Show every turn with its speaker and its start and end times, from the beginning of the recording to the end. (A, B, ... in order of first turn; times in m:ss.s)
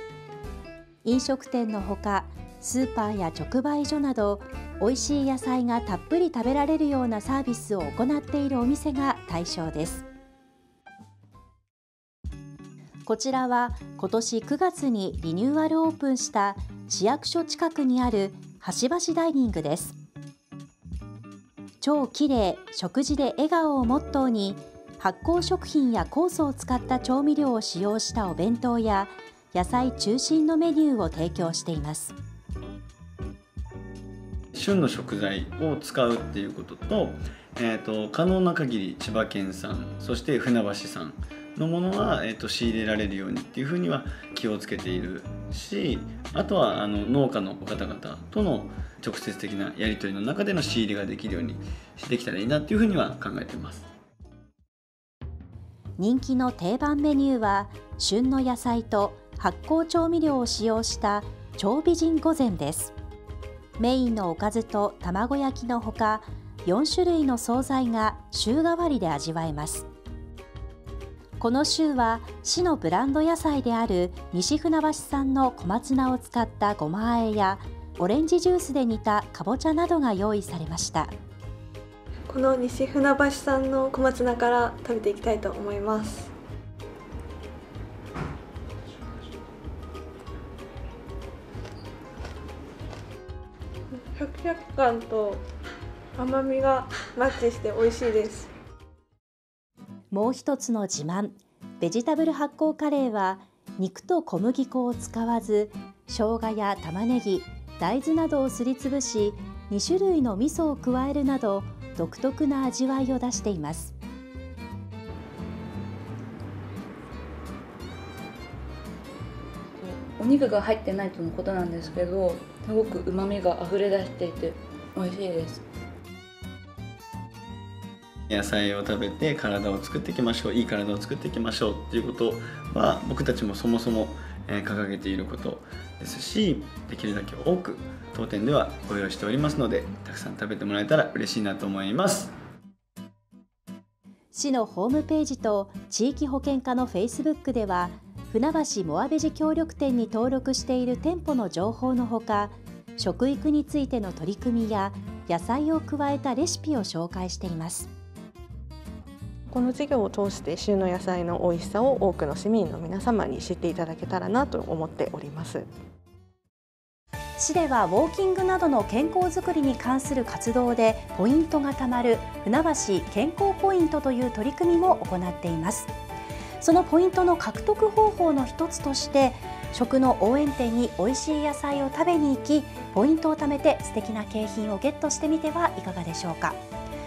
0:01.0-0:10.0 A
0:13.0-0:20.0 A
0:21.8-0:32.1 A
0:34.6-0:53.9 B
0:56.0-1:02.9 A
1:03.8-1:09.9 A
1:11.4-1:21.1 A
1:22.3-1:26.3 C
1:34.1-1:35.4 C
1:36.2-1:38.5 C
1:40.1-1:53.9 A
1:59.8-2:05.6 D
2:08.3-2:22.3 B
2:24.3-2:37.9 A
2:39.5-2:45.7 E
2:47.4-2:55.9 A
2:56.6-3:06.6 A